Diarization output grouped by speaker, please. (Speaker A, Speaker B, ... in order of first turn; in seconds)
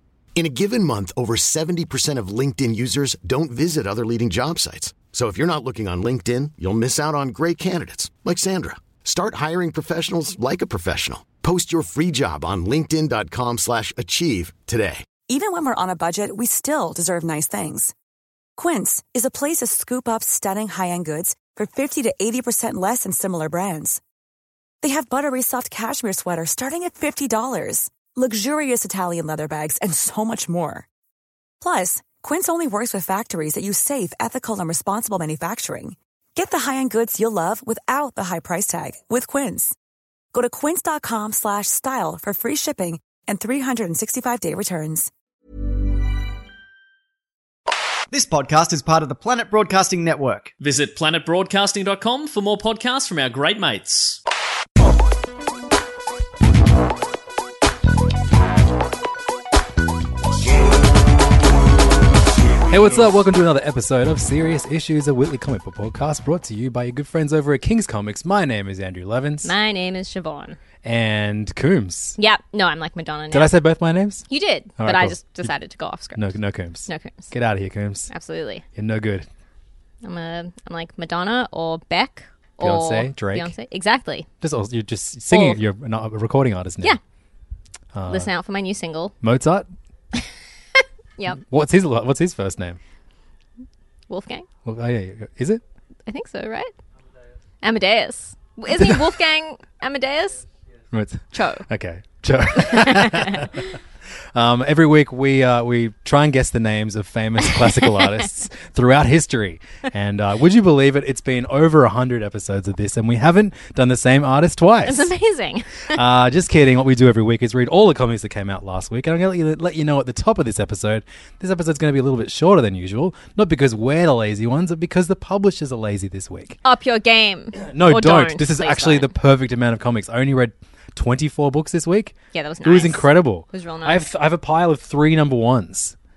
Speaker A: 0.3-15.1
Speaker B: 15.3-17.9, 18.6-24.0, 24.8-30.9, 31.6-39.7, 40.3-45.1
Speaker C: 48.1-50.5
Speaker D: 50.6-54.2
Speaker E: 62.7-69.5, 70.8-72.2, 73.3-74.2, 74.8-75.5, 76.1-78.1, 78.7-79.3, 82.6-83.5, 84.4-87.0, 87.9-88.3, 89.2-89.7, 91.4-92.8, 94.6-95.6, 98.7-99.0, 100.9-103.8, 104.3-115.1, 115.9-126.6, 127.5-135.9
Speaker F: 69.4-70.6, 72.2-73.5, 74.3-76.3, 76.9-77.3, 78.1-78.6, 80.0-84.3, 85.3-85.6, 88.1-89.1, 94.1-94.5, 96.1-96.7, 97.6-100.4, 101.3-101.7, 102.7-103.5, 114.8-116.0, 126.6-129.1, 132.3-134.0